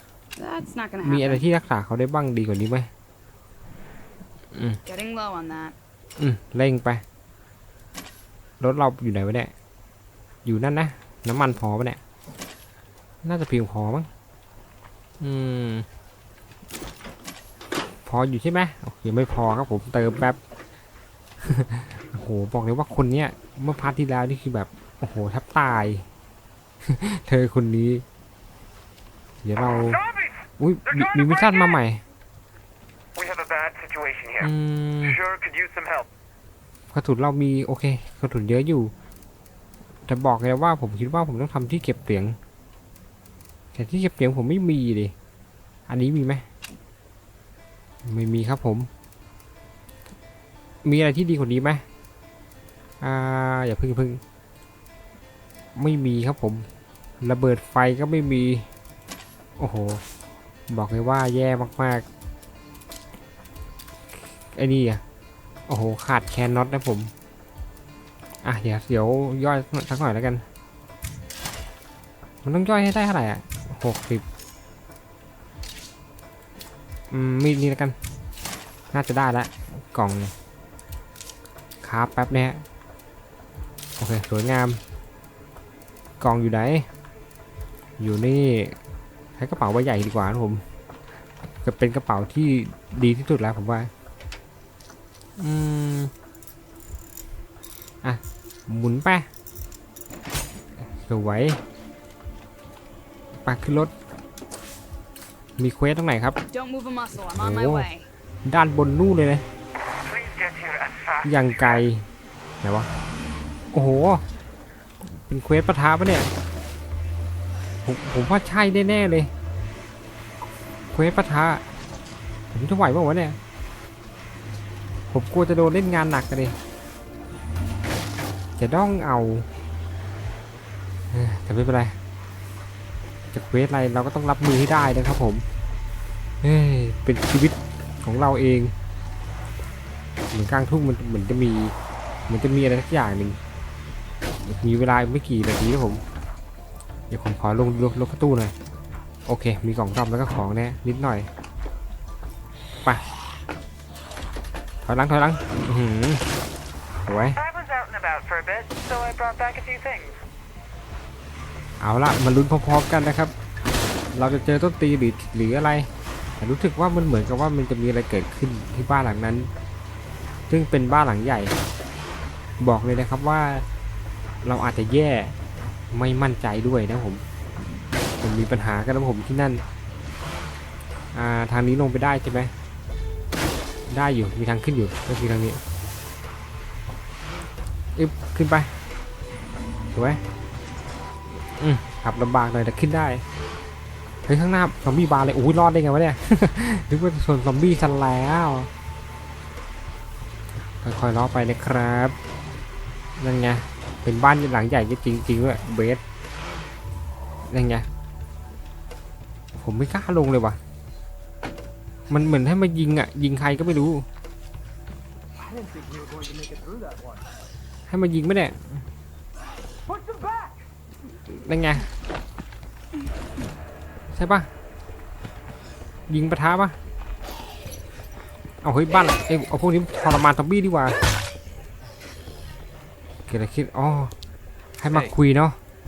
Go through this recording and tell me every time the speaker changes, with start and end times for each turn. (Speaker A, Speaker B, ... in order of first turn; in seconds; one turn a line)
Speaker A: 0.3-1.4
Speaker B: 1.0-2.9
Speaker B: 4.5-4.8
Speaker A: 4.8-5.7
Speaker B: 6.2-7.0
Speaker B: 8.6-9.5
Speaker B: 10.4-12.0
Speaker B: 13.2-14.1
Speaker B: 15.2-15.8
Speaker B: 18.1-20.4
Speaker B: 21.4-26.1
Speaker B: 26.9-28.0
Speaker B: 29.4-30.1
Speaker B: 30.6-32.0
Speaker C: 31.2-31.5
Speaker C: 33.1-34.4
Speaker B: 34.4-35.2
Speaker C: 35.2-36.1
Speaker B: 36.9-38.9
Speaker B: 40.1-42.4
Speaker B: 43.7-45.1
Speaker B: 45.9-46.4
Speaker B: 48.0-48.9
Speaker B: 50.8-51.8
Speaker B: 53.0-54.2
Speaker B: 55.8-56.6
Speaker B: 57.2-58.7
Speaker B: 59.6-60.0
Speaker B: 60.7-62.0
Speaker B: 64.5-65.0
Speaker B: 65.7-67.1
Speaker B: 68.4-70.4
Speaker B: 72.4-74.2
Speaker B: 77.1-77.9
Speaker B: 78.9-80.3
Speaker B: 81.8-82.6
Speaker B: 84.0-84.8
Speaker B: 86.2-86.8
Speaker B: 88.0-88.8
Speaker B: 89.4-90.6
Speaker B: 91.6-93.9
Speaker B: 95.4-96.1
Speaker B: 98.0-99.3
Speaker B: 100.9-101.6
Speaker B: 103.4-103.9
Speaker B: 105.6-106.4
Speaker A: 106.5-108.1
Speaker B: 107.2-107.9
Speaker B: 108.4-109.4
Speaker C: 110.0-111.2
Speaker B: 111.2-112.0
Speaker B: 112.6-112.9
Speaker B: 113.7-114.2
Speaker B: 115.0-116.3
Speaker B: 117.8-119.3
Speaker B: 120.9-121.6
Speaker B: 122.5-123.4
Speaker B: 125.1-126.5
Speaker B: 128.6-129.5
Speaker B: 131.1-132.0
Speaker B: 133.3-135.4
Speaker B: 136.4-138.7
Speaker B: 140.3-141.7
Speaker B: 142.3-143.4
Speaker B: 144.4-146.0
Speaker B: 147.1-148.5
Speaker B: 149.2-151.3
Speaker B: 154.8-156.2
Speaker B: 157.0-157.4
Speaker C: 157.4-160.2
Speaker B: 161.8-163.3
Speaker B: 164.1-169.5
Speaker B: 170.5-171.5
Speaker B: 172.6-173.6
Speaker B: 174.4-175.4
Speaker B: 175.9-179.6
Speaker B: 181.1-182.5
Speaker B: 183.9-185.6
Speaker B: 187.9-188.7
Speaker B: 189.9-190.2
Speaker B: 191.6-193.2
Speaker B: 194.2-198.7
Speaker B: 200.8-202.1
Speaker B: 203.2-206.0
Speaker B: 207.5-207.8
Speaker B: 209.6-210.6
Speaker B: 212.1-214.1
Speaker B: 217.9-218.8
Speaker B: 221.3-221.9
Speaker B: 224.1-224.5
Speaker B: 226.1-226.8
Speaker B: 228.6-231.0
Speaker B: 233.3-234.1
Speaker B: 234.8-235.6